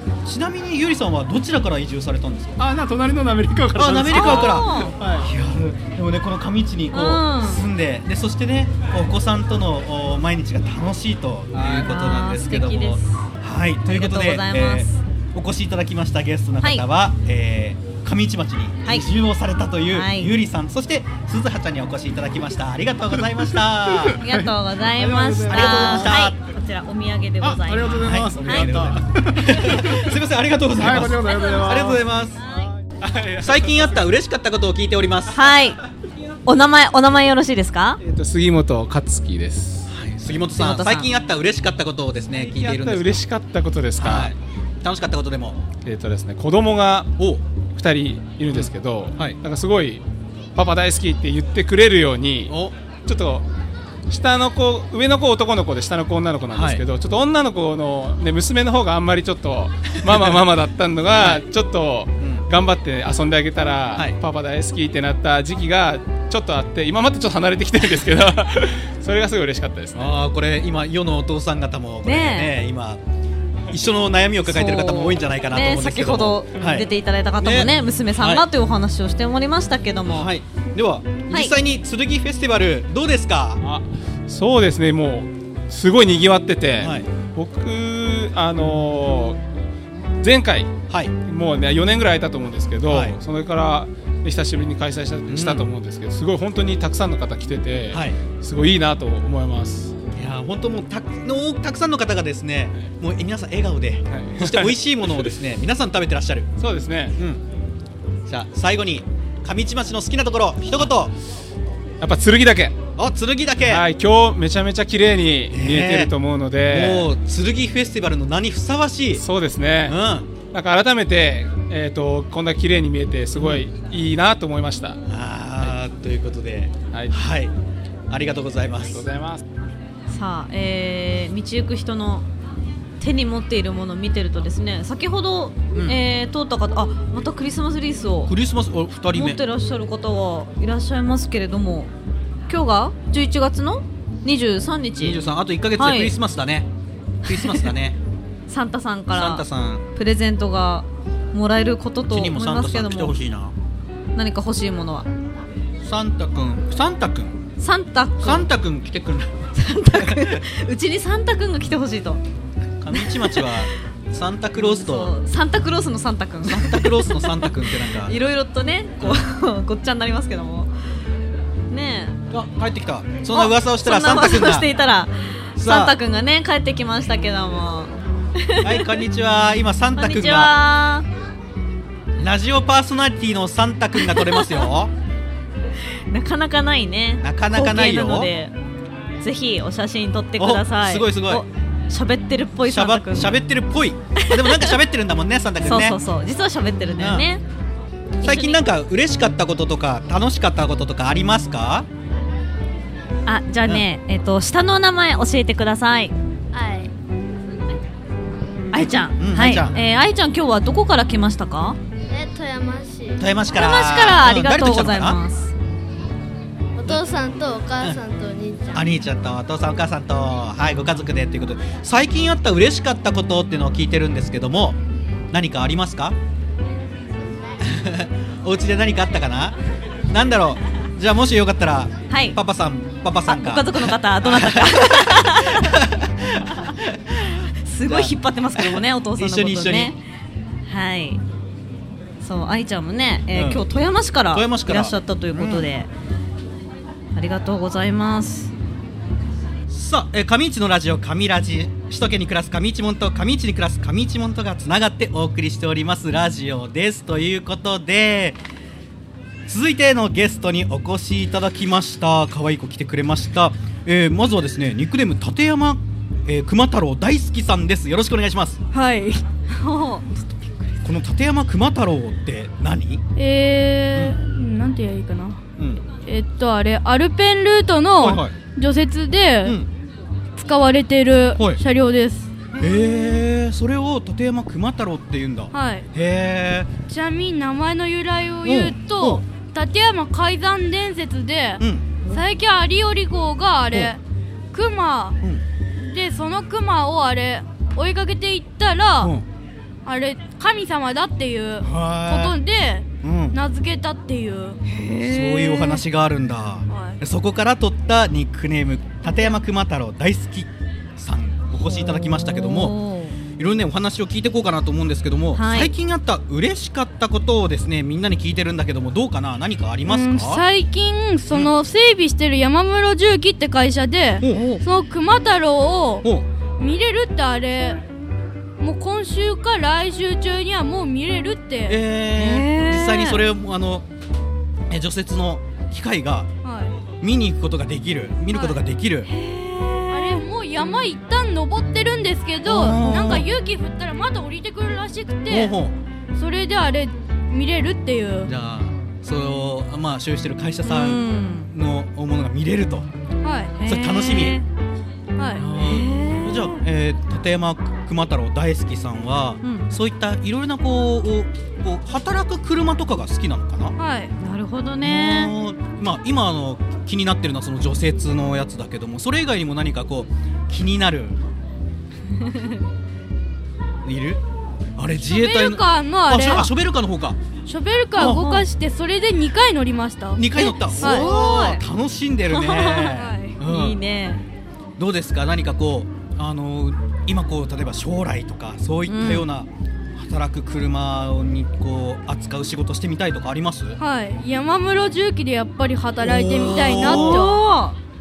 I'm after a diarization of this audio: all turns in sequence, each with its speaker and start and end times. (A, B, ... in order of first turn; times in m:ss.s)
0:00.2-0:02.6 A
0:02.6-0:05.3 B
0:03.8-0:24.2 A
0:04.1-0:05.0 C
0:06.9-0:07.6 C
0:11.5-0:11.9 B
0:11.8-0:13.2 C
0:13.9-0:15.0 C
0:19.9-0:20.3 C
0:24.1-0:26.2 B
0:24.2-0:28.7 C
0:25.5-0:26.4 A
0:27.4-0:30.1 B
0:28.0-0:32.4 A
0:30.8-0:32.1 B
0:31.1-0:31.7 C
0:32.4-0:32.7 C
0:33.0-0:33.8 D
0:33.4-0:35.7 A
0:35.3-0:35.8 C
0:36.5-0:38.0 C
0:38.0-0:39.9 D
0:39.9-0:43.2 A
0:40.5-0:41.1 C
0:42.4-0:44.3 D
0:44.0-0:45.6 A
0:45.8-0:47.1 D
0:47.2-0:47.4 A
0:47.7-0:50.0 D
0:48.5-0:49.4 A
0:50.6-0:53.4 D
0:52.5-0:52.8 A
0:54.1-1:10.0 D
0:56.5-0:56.8 A
1:00.0-1:00.4 A
1:01.1-1:01.4 A
1:02.2-1:02.5 A
1:10.0-1:13.0 A
1:12.0-1:12.5 C
1:13.7-1:16.9 A
1:14.4-1:20.3 C
1:17.4-1:18.4 A
1:20.1-1:23.6 A
1:23.6-1:29.4 D
1:26.8-1:27.1 A
1:30.2-1:30.7 D
1:30.9-1:31.1 A
1:31.3-1:39.9 D
1:32.9-1:33.2 A
1:35.3-1:35.7 A
1:37.9-1:38.2 A
1:40.2-1:46.5 A
1:44.1-1:45.4 D
1:46.6-1:47.1 D
1:47.2-1:47.4 A
1:48.3-1:51.1 A
1:52.0-1:52.8 D
1:53.0-1:53.8 A
1:53.7-1:57.1 D
1:55.5-1:56.1 A
1:56.6-1:59.2 A
1:59.2-2:00.0 D
1:59.8-2:00.3 A
2:00.5-2:05.0 D
2:03.4-2:03.6 A
2:05.1-2:07.5 A
2:08.1-2:09.0 A
2:08.8-2:09.4 D
2:10.1-2:12.3 C
2:13.0-2:18.3 C
2:15.7-2:16.0 A
2:18.3-2:19.4 A
2:19.1-2:21.9 C
2:22.5-2:25.2 C
2:25.0-2:26.7 A
2:25.8-2:26.2 C
2:27.2-2:28.0 A
2:27.3-2:27.7 C
2:28.5-2:33.2 C
2:29.1-2:29.8 A
2:32.1-2:33.5 A
2:34.2-2:35.1 C
2:35.8-2:37.4 A
2:37.6-2:38.5 C
2:38.2-2:39.4 A
2:39.6-2:42.2 C
2:39.9-2:40.4 A
2:42.8-2:45.1 A
2:42.9-2:43.5 C
2:44.6-2:50.7 C
2:46.5-2:48.1 A
2:51.7-2:52.2 C
2:52.3-2:54.7 A
2:53.3-2:59.0 C
2:55.6-2:56.0 A
2:58.6-3:00.5 A
3:00.0-3:01.1 C
3:02.2-3:04.9 A
3:04.0-3:04.7 C
3:06.1-3:08.5 C
3:07.2-3:08.3 A
3:09.2-3:13.4 C
3:10.4-3:11.4 A
3:12.7-3:16.0 A
3:14.2-3:14.7 C
3:15.6-3:17.4 C
3:17.0-3:17.2 A
3:18.2-3:21.9 A
3:18.2-3:18.6 C
3:23.3-3:26.1 C
3:26.5-3:26.9 E
3:28.7-3:31.8 C
3:29.2-3:29.8 A
3:32.1-3:33.2 E
3:33.2-3:35.2 A
3:33.5-3:35.5 C
3:36.8-3:38.9 E
3:38.7-3:44.8 A
3:45.3-3:46.2 A
3:47.6-3:49.6 A
3:50.1-3:59.9 A
3:52.1-3:52.4 C
3:53.3-3:55.8 C
3:57.7-4:00.0 C
4:00.7-4:01.2 C
4:02.2-4:05.9 C
4:03.3-4:03.6 A
4:04.3-4:05.7 A
4:07.2-4:08.5 C
4:09.7-4:18.4 A
4:19.5-4:28.6 A
4:28.7-4:29.2 F
4:29.5-4:30.8 C
4:30.8-4:33.0 A
4:33.2-4:35.4 F
4:35.6-4:35.8 A
4:36.1-4:39.6 F
4:38.0-4:38.4 A
4:40.4-4:43.1 F
4:42.6-4:46.7 A
4:45.5-4:45.8 F
4:46.9-4:54.0 F
4:48.4-4:49.2 A
4:51.6-4:52.2 A
4:54.5-4:55.2 F
4:55.8-4:59.1 F
4:59.8-5:04.6 F
5:01.6-5:02.4 A
5:03.0-5:03.4 A
5:04.7-5:05.7 C
5:05.0-5:12.8 A
5:06.7-5:07.0 F
5:12.0-5:13.2 C
5:13.4-5:20.4 A
5:15.4-5:15.7 C
5:19.9-5:26.1 F
5:24.2-5:24.6 A
5:24.3-5:24.6 C
5:26.6-5:27.8 F
5:28.6-5:31.8 F
5:31.7-5:33.9 A
5:32.2-5:33.2 C
5:34.7-5:36.3 A
5:36.4-5:36.7 F
5:37.0-5:39.1 A
5:39.1-5:40.2 C
5:39.9-5:45.6 F
5:42.4-5:43.3 A
5:45.3-5:45.8 A
5:46.1-5:48.3 F
5:48.2-5:52.9 A
5:50.6-5:51.5 C
5:53.2-5:53.6 F
5:53.6-5:54.4 C
5:53.6-5:54.4 A
5:55.2-5:55.4 F
5:55.4-5:56.6 C
5:55.4-6:03.8 A
5:59.4-5:59.7 C
6:03.8-6:04.1 F
6:04.2-6:05.3 C
6:04.8-6:11.2 A
6:12.2-6:12.6 C
6:13.8-6:14.2 A
6:14.8-6:17.2 A
6:15.1-6:16.5 F
6:17.5-6:21.1 F
6:18.0-6:18.5 C
6:18.0-6:18.2 A
6:20.2-6:23.8 A
6:20.4-6:21.6 C
6:22.3-6:24.2 C
6:22.9-6:23.4 F
6:24.8-6:33.8 A
6:28.9-6:29.3 C
6:33.8-6:37.4 F
6:36.0-6:37.2 A
6:36.7-6:37.8 C